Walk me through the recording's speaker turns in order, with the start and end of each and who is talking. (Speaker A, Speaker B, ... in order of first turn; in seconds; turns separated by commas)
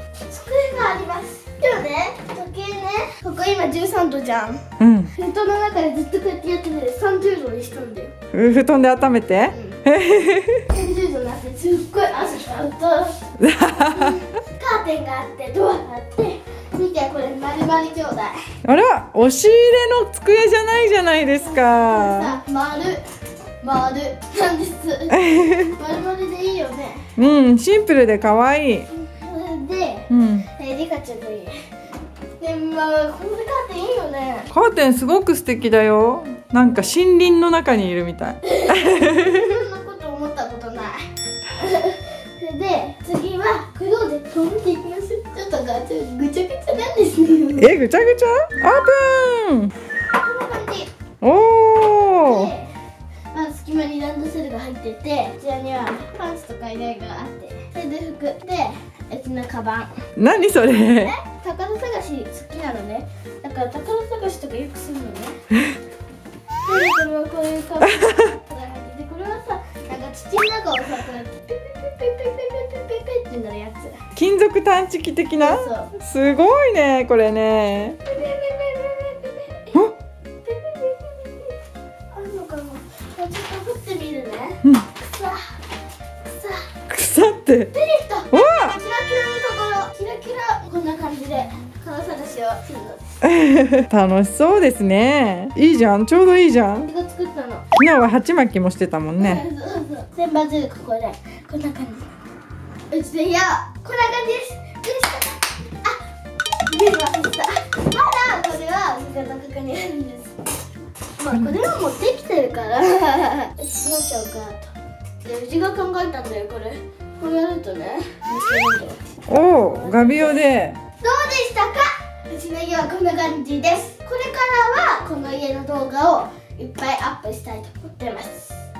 Speaker A: 0.3-8.1, Speaker B: 4.8-5.1, Speaker B: 8.3-10.6, Speaker A: 9.5-9.8, Speaker A: 10.7-13.2, Speaker B: 13.4-14.2, Speaker A: 13.9-18.4, Speaker B: 18.6-22.4, Speaker A: 21.4-23.0, Speaker A: 23.6-27.0, Speaker B: 25.1-25.8, Speaker B: 27.2-28.9, Speaker A: 28.9-31.6, Speaker B: 30.1-30.5, Speaker A: 32.4-34.5, Speaker B: 34.5-39.4, Speaker A: 38.4-41.0, Speaker A: 41.5-47.7, Speaker B: 47.6-49.7, Speaker A: 50.1-50.9, Speaker B: 51.2-52.5, Speaker A: 52.2-52.7, Speaker A: 53.3-59.9, Speaker B: 60.2-61.1, Speaker A: 60.9-65.4, Speaker A: 66.7-74.0, Speaker B: 68.0-68.2, Speaker B: 74.1-78.0, Speaker A: 75.4-75.9, Speaker A: 78.0-79.8, Speaker A: 80.4-81.6, Speaker A: 82.1-85.5, Speaker A: 86.2-86.7, Speaker B: 86.9-87.7, Speaker A: 87.7-93.1, Speaker B: 88.3-88.8, Speaker B: 93.2-96.9, Speaker A: 96.8-97.6, Speaker B: 97.7-99.4, Speaker A: 99.2-102.2, Speaker A: 102.9-106.0, Speaker A: 106.7-110.5, Speaker A: 111.2-120.4, Speaker B: 119.3-120.8, Speaker A: 121.0-128.6